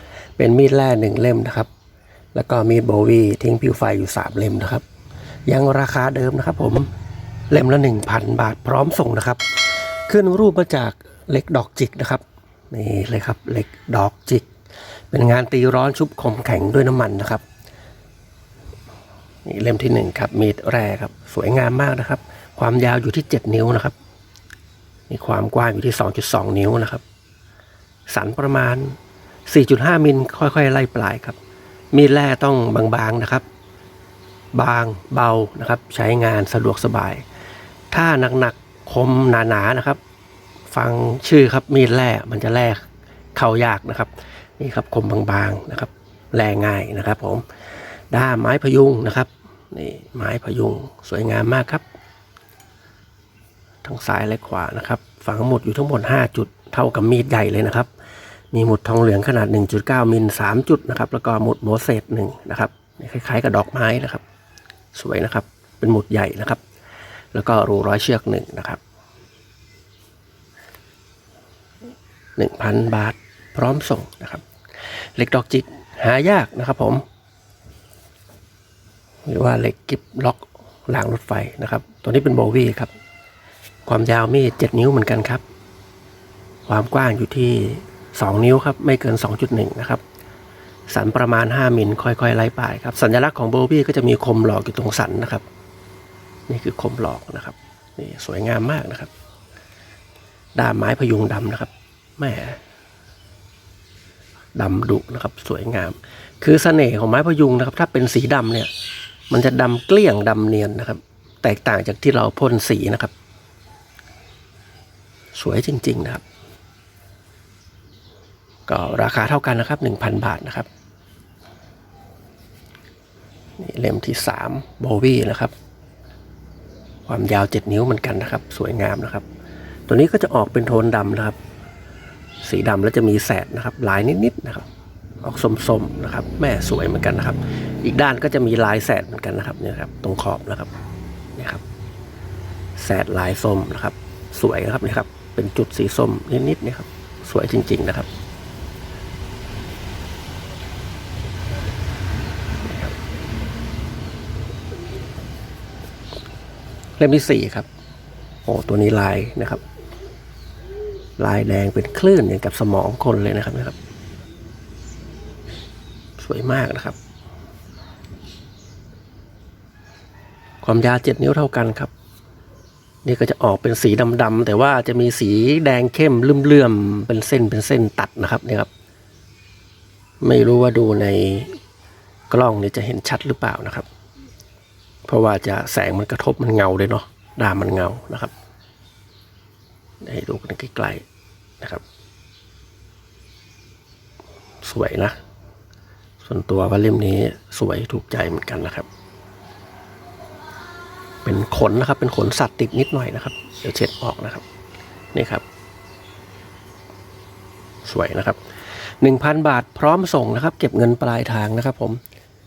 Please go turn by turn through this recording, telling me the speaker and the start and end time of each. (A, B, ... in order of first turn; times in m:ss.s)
0:00.4-0:01.7 A
0:02.4-0:04.8 A
0:05.5-0:06.9 A
0:07.5-0:14.5 A
0:15.1-0:17.4 A
0:19.4-0:24.0 A
0:25.1-0:27.0 A
0:28.1-0:29.0 A
0:29.5-0:31.4 A
0:31.9-0:33.5 A
0:34.5-0:37.2 A
0:37.9-0:40.0 A
0:40.7-0:47.4 A
0:48.1-0:51.8 A
0:53.8-0:57.9 A
0:58.5-1:04.2 A
1:04.9-1:06.6 A
1:07.3-1:08.8 A
1:12.4-1:14.4 A
1:15.2-1:17.0 A
1:19.2-1:22.9 A
1:23.9-1:25.4 A
1:26.7-1:30.0 A
1:30.9-1:35.4 A
1:36.5-1:39.1 A
1:40.6-1:42.6 A
1:44.6-1:48.7 A
1:49.3-1:53.1 A
1:55.4-1:56.2 A
1:58.7-2:00.7 A
2:03.6-2:05.5 A
2:07.1-2:09.2 A
2:09.9-2:11.4 A
2:12.4-2:14.7 A
2:15.2-2:20.7 A
2:21.4-2:21.6 A
2:22.8-2:28.1 A
2:37.0-2:37.7 A
2:38.4-2:39.6 A
2:41.2-2:43.8 A
2:46.2-2:47.0 A
2:50.6-2:51.9 A
2:53.0-2:58.7 A
3:00.2-3:01.6 A
3:02.3-3:03.9 A
3:05.1-3:08.3 A
3:10.0-3:11.0 A
3:14.6-3:15.2 A
3:16.2-3:18.9 A
3:21.2-3:24.4 A
3:25.1-3:25.4 A
3:27.8-3:28.4 A
3:29.0-3:32.0 A